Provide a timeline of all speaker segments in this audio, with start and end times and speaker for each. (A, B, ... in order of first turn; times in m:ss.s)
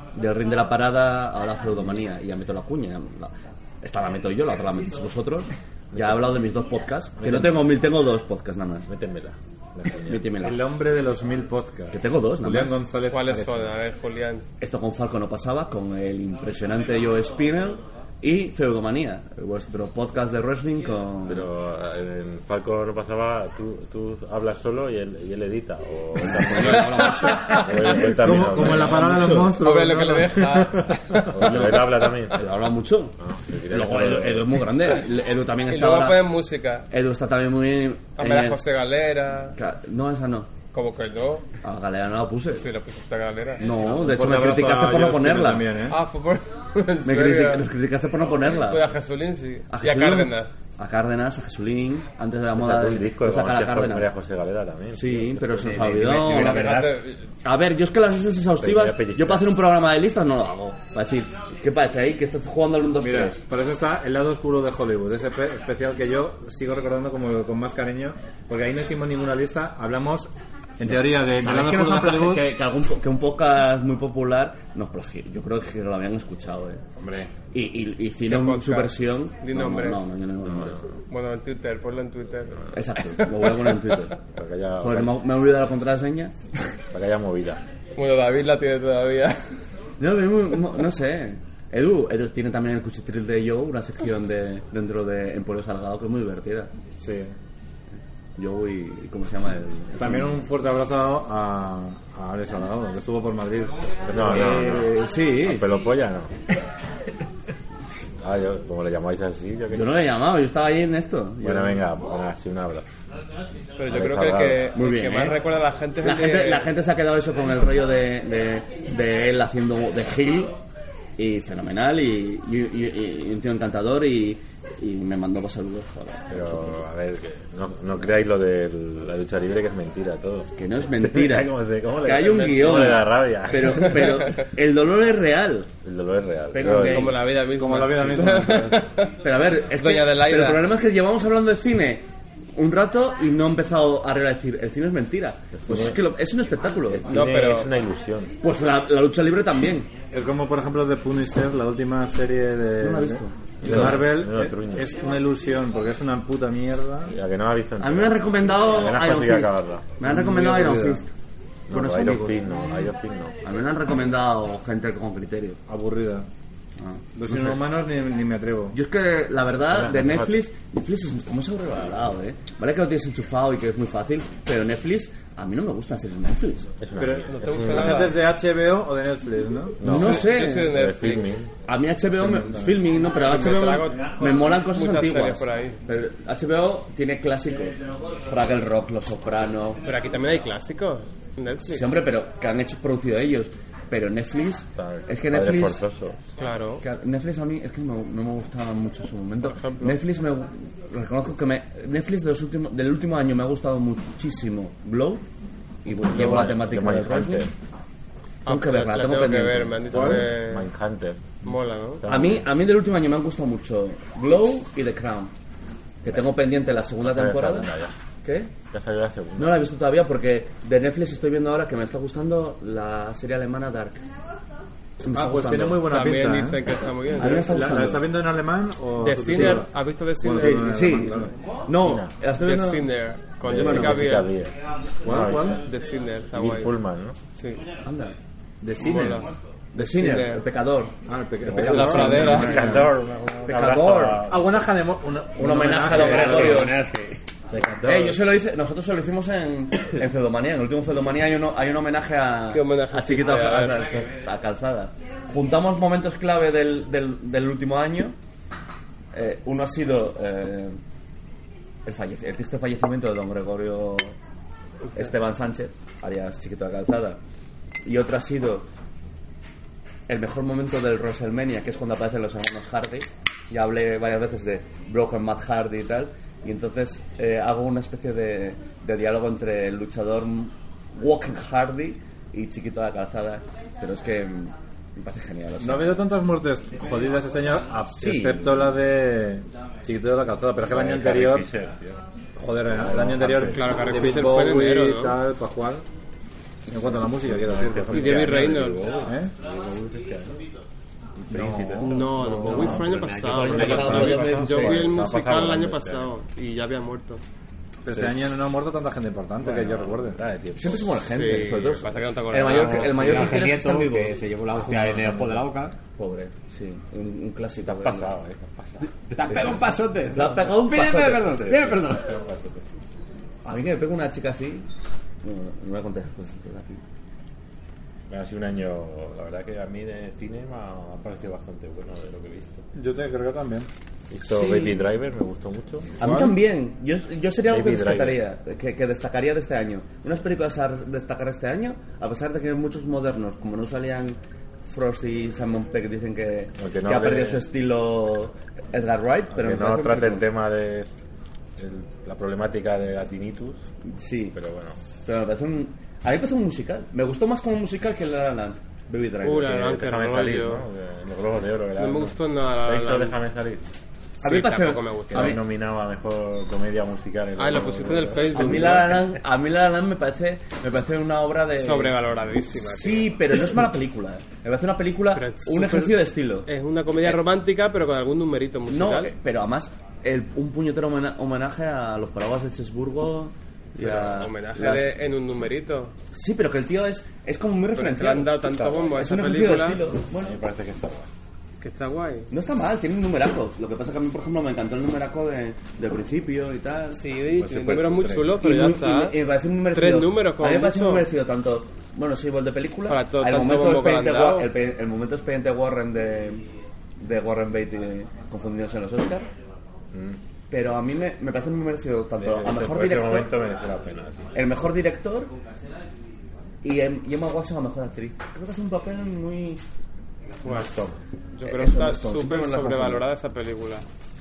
0:00.1-0:08.9 A
0:05.9-0:06.3 B
0:07.2-0:07.7 B
0:08.9-0:10.3 B
0:10.0-0:10.6 A
0:10.4-0:13.8 C
0:11.9-0:12.8 A
0:13.1-0:14.4 D
0:14.6-0:21.5 A
0:21.3-0:29.2 B
0:26.2-0:29.6 A
0:27.2-0:27.7 D
0:28.0-0:31.0 C
0:29.3-0:31.9 D
0:31.3-0:32.5 B
0:31.4-0:33.2 A
0:33.2-0:34.6 B
0:33.7-0:36.3 A
0:35.7-0:36.9 D
0:36.9-0:38.6 A
0:38.2-0:39.6 D
0:39.6-0:40.5 A
0:40.7-0:41.4 D
0:41.6-0:42.7 A
0:42.6-0:43.7 D
0:43.6-0:45.8 A
0:43.9-0:46.0 C
0:45.9-0:47.7 D
0:47.0-0:48.8 A
0:48.4-0:50.5 D
0:49.7-0:54.1 A
0:52.6-0:56.0 B
0:54.9-1:03.4 A
0:55.8-0:56.9 E
0:56.1-0:57.2 D
0:58.6-0:59.5 B
1:03.0-1:12.5 C
1:10.9-1:16.8 A
1:17.0-1:17.4 B
1:17.5-1:20.8 A
1:18.3-1:20.1 D
1:20.5-1:20.8 B
1:21.1-1:22.6 D
1:22.7-1:24.2 A
1:24.2-1:25.2 B
1:24.8-1:26.4 A
1:26.9-1:27.6 B
1:28.0-1:29.4 D
1:30.0-1:36.7 A
1:37.0-1:37.4 C
1:38.4-1:40.4 A
1:40.0-1:44.8 C
1:44.0-1:46.3 B
1:44.2-1:45.7 A
1:48.2-1:50.0 B
1:49.7-1:51.8 A
1:51.4-1:52.9 B
1:53.8-1:56.7 D
1:53.9-1:54.7 B
1:54.7-1:55.4 A
1:56.0-2:00.6 A
2:01.2-2:06.8 A
2:06.3-2:14.0 B
2:10.6-2:15.7 A
2:14.0-2:14.4 D
2:15.8-2:17.3 B
2:16.5-2:17.2 A
2:16.6-2:19.1 D
2:17.5-2:18.8 C
2:19.2-2:27.3 A
2:19.7-2:20.6 D
2:25.6-2:26.0 B
2:26.9-2:28.4 B
2:27.1-2:27.7 D
2:28.4-2:29.9 A
2:30.1-2:37.1 C
2:32.8-2:34.2 A
2:33.6-2:34.9 B
2:37.1-2:40.0 B
2:37.8-2:41.1 A
2:40.0-2:41.0 C
2:41.7-2:43.4 B
2:41.7-2:42.9 A
2:43.4-2:45.6 A
2:45.7-2:46.3 C
2:46.8-2:47.6 A
2:47.2-2:48.8 C
2:48.7-2:56.7 A
2:49.7-2:50.4 B
2:56.8-2:58.1 B
2:57.0-3:00.0 C
2:57.3-2:58.3 D
2:59.8-3:01.6 B
2:59.8-3:00.8 A
2:59.9-3:01.4 D
3:01.6-3:09.8 A
3:02.2-3:02.8 C
3:03.0-3:05.8 D
3:09.8-3:11.9 D
3:11.7-3:15.8 A
3:14.8-3:16.2 B
3:16.4-3:16.8 D
3:16.8-3:25.2 A
3:19.4-3:20.0 D
3:25.8-3:27.5 A
3:26.0-3:27.5 B
3:28.5-3:30.2 A
3:28.5-3:30.7 D
3:29.9-3:32.5 B
3:31.4-3:32.0 D
3:32.1-3:35.3 A
3:36.0-3:37.7 A
3:37.0-3:37.9 B
3:38.2-3:38.5 A
3:38.7-3:39.7 B
3:39.4-3:44.0 A
3:45.0-3:46.0 A
3:45.1-3:46.6 C
3:45.8-3:47.7 D
3:47.2-3:48.2 A
3:47.2-3:49.7 C
3:49.0-3:51.1 D
3:49.3-3:49.6 A
3:50.2-3:51.3 C
3:50.4-3:52.9 A
3:51.8-3:52.1 B
3:52.4-3:54.3 D
3:53.5-3:54.2 A
3:53.5-3:54.5 B
3:55.0-3:55.6 C
3:55.0-3:55.6 B
3:55.4-3:56.7 D
3:56.3-3:57.2 B
3:57.4-3:57.6 D
3:57.8-3:58.2 A
3:58.6-3:59.3 C
3:58.8-4:00.4 D
3:59.7-4:02.9 A
4:01.1-4:02.9 C
4:01.6-4:02.8 D
4:01.6-4:04.5 B
4:03.5-4:04.3 A
4:04.3-4:06.7 C
4:05.4-4:06.8 A
4:05.8-4:07.2 E
4:07.5-4:08.2 B
4:07.5-4:08.0 C
4:07.8-4:18.2 A
4:12.5-4:14.1 D
4:19.1-4:20.8 A
4:21.8-4:24.1 A
4:24.9-4:27.2 A
4:27.8-4:28.7 A
4:30.1-4:46.0 A
4:45.6-4:51.5 C
4:47.9-4:48.8 A
4:50.6-4:52.0 B
4:52.4-4:55.8 C
4:52.7-4:54.2 B
4:53.5-4:55.2 D
4:56.7-4:59.3 C
4:57.1-5:00.4 B
4:57.9-4:59.1 D
5:01.2-5:02.8 B
5:01.3-5:02.1 C
5:01.8-5:07.2 D
5:02.2-5:04.3 E
5:02.2-5:02.8 A
5:03.4-5:06.1 B
5:03.5-5:05.0 A
5:07.8-5:10.2 C
5:09.4-5:10.9 B
5:10.6-5:15.4 A
5:11.1-5:13.4 D
5:12.4-5:15.7 E
5:16.0-5:18.1 A
5:17.6-5:19.4 B
5:19.1-5:22.2 E
5:20.1-5:21.6 A
5:21.4-5:22.7 B
5:23.4-5:24.7 A
5:25.2-5:26.8 A
5:28.1-5:32.6 B
5:32.8-5:33.7 C
5:34.1-5:36.0 B
5:34.3-5:34.8 A
5:36.0-5:50.3 A
5:36.0-5:36.4 C
5:37.5-5:38.2 B
5:46.6-5:47.4 B
5:49.3-5:51.0 B
5:51.6-5:53.6 B
5:53.8-5:54.4 A
5:54.3-5:54.8 B
5:55.0-5:59.6 A
5:59.2-6:00.6 D
5:59.6-6:03.7 B
6:01.8-6:03.2 D
6:04.2-6:05.4 D
6:04.2-6:05.4 A
6:05.1-6:08.9 B
6:07.4-6:09.0 D
6:08.3-6:12.0 A
6:11.6-6:13.3 D
6:12.5-6:16.5 A
6:15.2-6:19.1 D
6:18.7-6:24.9 A
6:23.8-6:25.9 D
6:26.1-6:30.4 A
6:27.8-6:29.8 D
6:30.2-6:31.1 B
6:31.6-6:32.3 D
6:32.3-6:37.0 A
6:36.9-6:39.2 D
6:37.3-6:38.4 B
6:38.4-6:46.5 A
6:39.7-6:41.1 D
6:42.9-6:44.5 D
6:47.0-6:49.3 A
6:49.9-6:50.2 B
6:50.5-6:53.4 A
6:52.2-6:54.4 B
6:54.3-6:55.4 A
6:56.6-6:59.6 A
7:00.4-7:00.7 D
7:00.4-7:03.1 A
7:01.4-7:03.9 D